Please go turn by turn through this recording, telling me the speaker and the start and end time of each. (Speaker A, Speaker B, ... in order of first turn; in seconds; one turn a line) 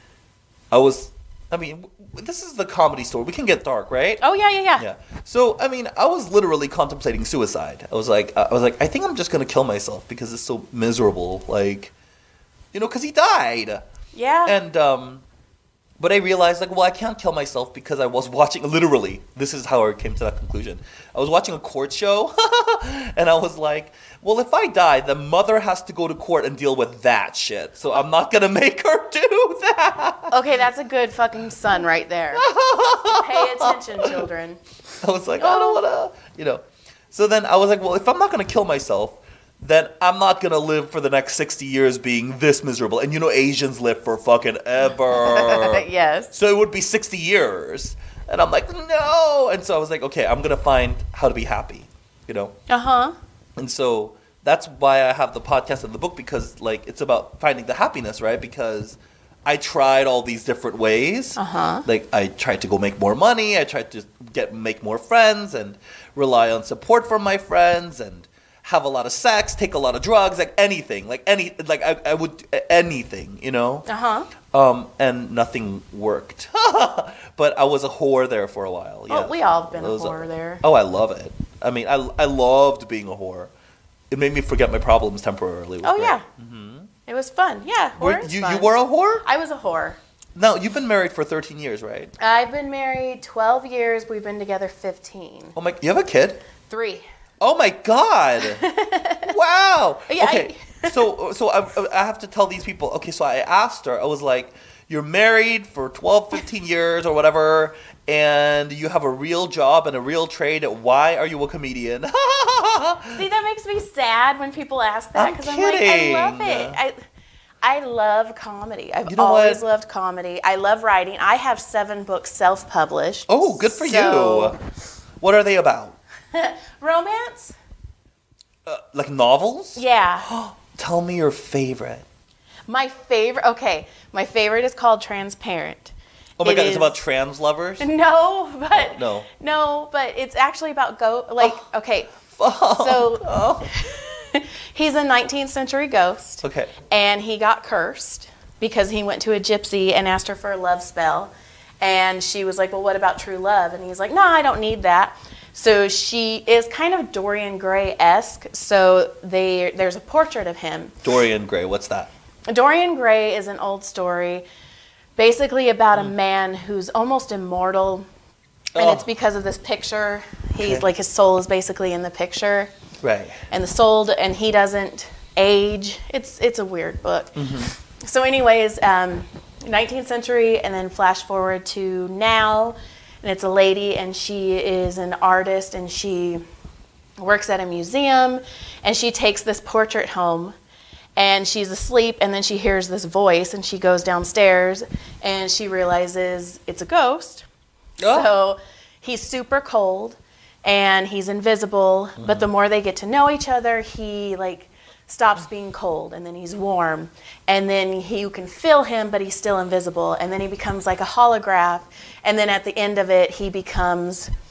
Speaker A: 0.7-4.2
Speaker B: 4.2-4.8
Speaker A: 4.8-11.9
Speaker A: 12.7-13.8
Speaker B: 14.1-14.6
Speaker A: 14.5-15.2
Speaker A: 16.0-30.3
Speaker B: 30.3-32.5
Speaker A: 32.3-34.2
Speaker B: 33.0-34.6
Speaker A: 35.0-52.5
Speaker B: 35.4-35.8
Speaker B: 45.1-46.3
Speaker B: 52.7-53.1
Speaker A: 53.6-73.9
Speaker B: 61.4-61.9
Speaker B: 73.9-74.3
Speaker A: 74.5-83.5
Speaker B: 79.1-80.6
Speaker A: 84.1-86.9
Speaker B: 85.8-86.2
Speaker B: 87.1-90.0
Speaker A: 88.0-89.2
Speaker A: 90.3-92.1
Speaker B: 92.2-95.5
Speaker A: 95.5-96.4
Speaker B: 96.7-97.0
Speaker A: 97.4-98.7
Speaker B: 98.4-99.3
Speaker A: 99.3-113.2
Speaker B: 100.1-101.1
Speaker B: 113.1-117.0
Speaker A: 115.2-116.8
Speaker B: 117.6-124.6
Speaker A: 119.1-119.6
Speaker A: 123.3-124.6
Speaker A: 125.2-126.0
Speaker B: 126.3-127.6
Speaker A: 128.7-132.1
Speaker B: 129.8-130.3
Speaker B: 132.7-137.0
Speaker A: 136.4-137.9
Speaker B: 137.8-142.1
Speaker A: 138.7-139.3
Speaker A: 142.3-143.7
Speaker B: 142.8-160.9
Speaker A: 146.4-146.7
Speaker A: 161.0-162.1
Speaker B: 162.5-164.5
Speaker B: 165.2-168.1
Speaker A: 168.7-169.1
Speaker B: 168.8-172.7
Speaker A: 170.6-170.9
Speaker A: 173.0-173.4
Speaker B: 173.5-186.4
Speaker A: 177.4-177.7
Speaker B: 187.2-190.6
Speaker B: 191.2-197.5
Speaker A: 198.0-198.3
Speaker B: 198.1-214.3
Speaker A: 202.2-202.5